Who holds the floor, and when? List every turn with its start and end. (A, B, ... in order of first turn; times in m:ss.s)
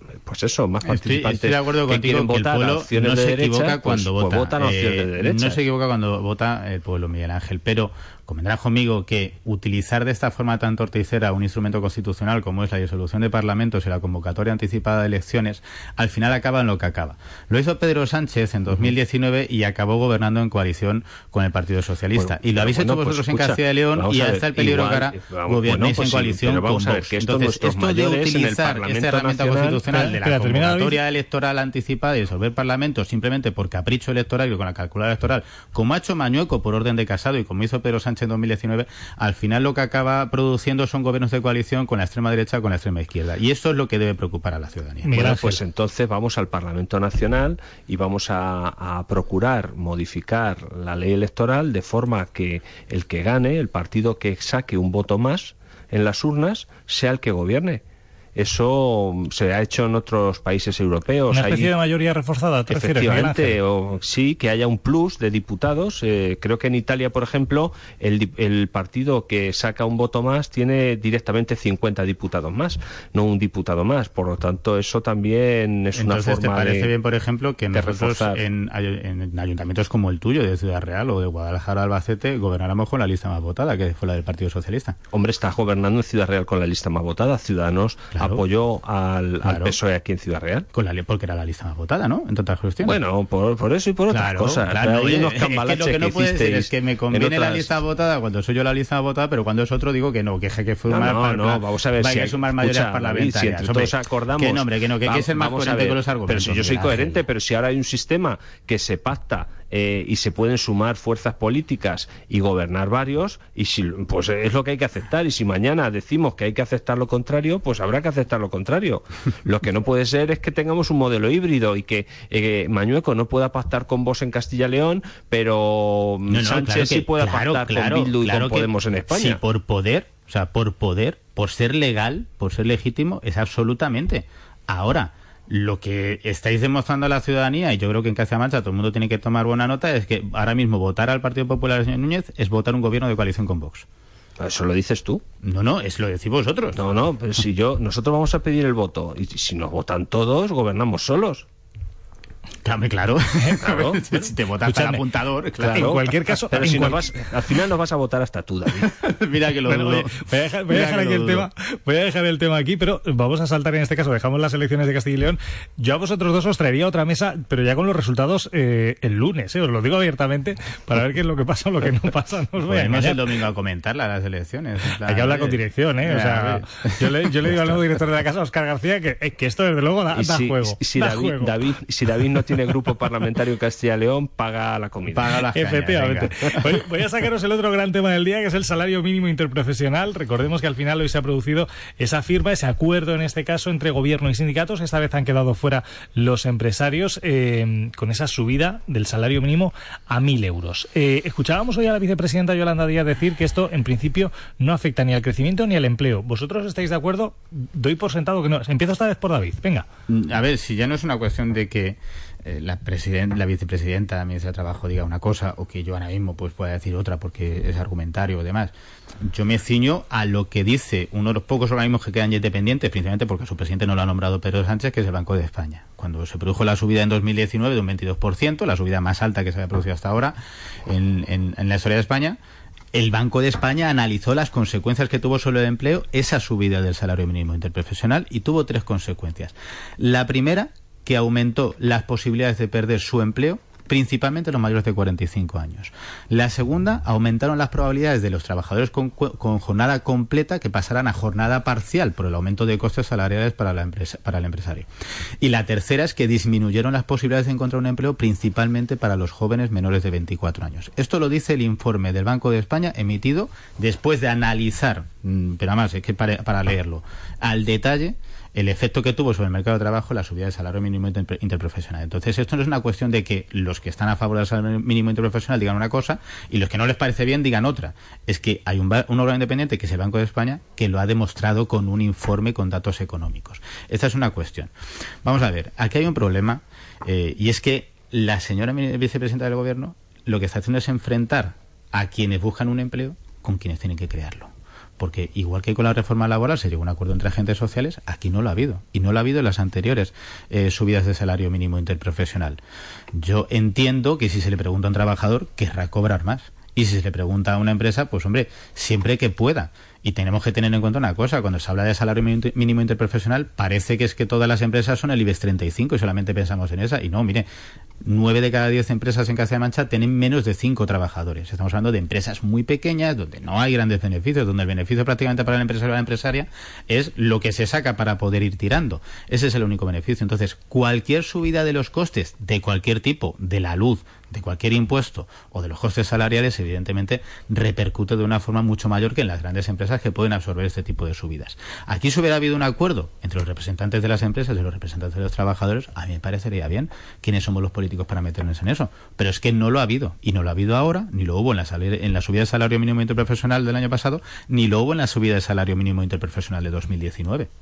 0:00.2-0:05.6 A
0:00.8-0:45.2 B
0:22.1-0:29.9 A
0:29.8-0:31.0 C
0:45.0-0:45.6 C
0:45.1-0:57.8 A
0:58.4-1:01.7 A
1:01.3-1:03.5 C
1:02.7-1:16.9 A
1:16.0-1:25.0 B
1:17.7-1:18.4 A
1:25.1-1:30.7 A
1:28.2-1:28.4 B
1:29.4-1:29.8 B
1:30.7-1:33.0 B
1:32.8-1:37.8 A
1:34.1-1:47.2 B
1:40.9-2:09.4 A
2:06.3-2:23.8 B
2:24.4-2:25.2 A
2:25.4-2:26.9 B
2:26.7-2:31.4 A
2:32.6-2:35.9 B
2:33.6-2:34.0 A
2:34.6-2:35.0 C
2:35.6-2:37.1 C
2:35.6-2:38.9 A
2:39.0-2:41.5 B
2:39.7-2:53.4 C
2:52.6-2:57.8 B
2:55.0-3:01.5 C
3:00.1-3:05.3 A
3:05.1-3:06.7 B
3:05.5-3:29.9 C
3:30.1-3:38.7 B
3:39.2-3:52.4 B
3:52.9-4:14.9 B
4:15.4-4:44.7 B
4:45.2-5:02.6 B
5:03.2-5:17.5 B
5:18.0-5:57.5 B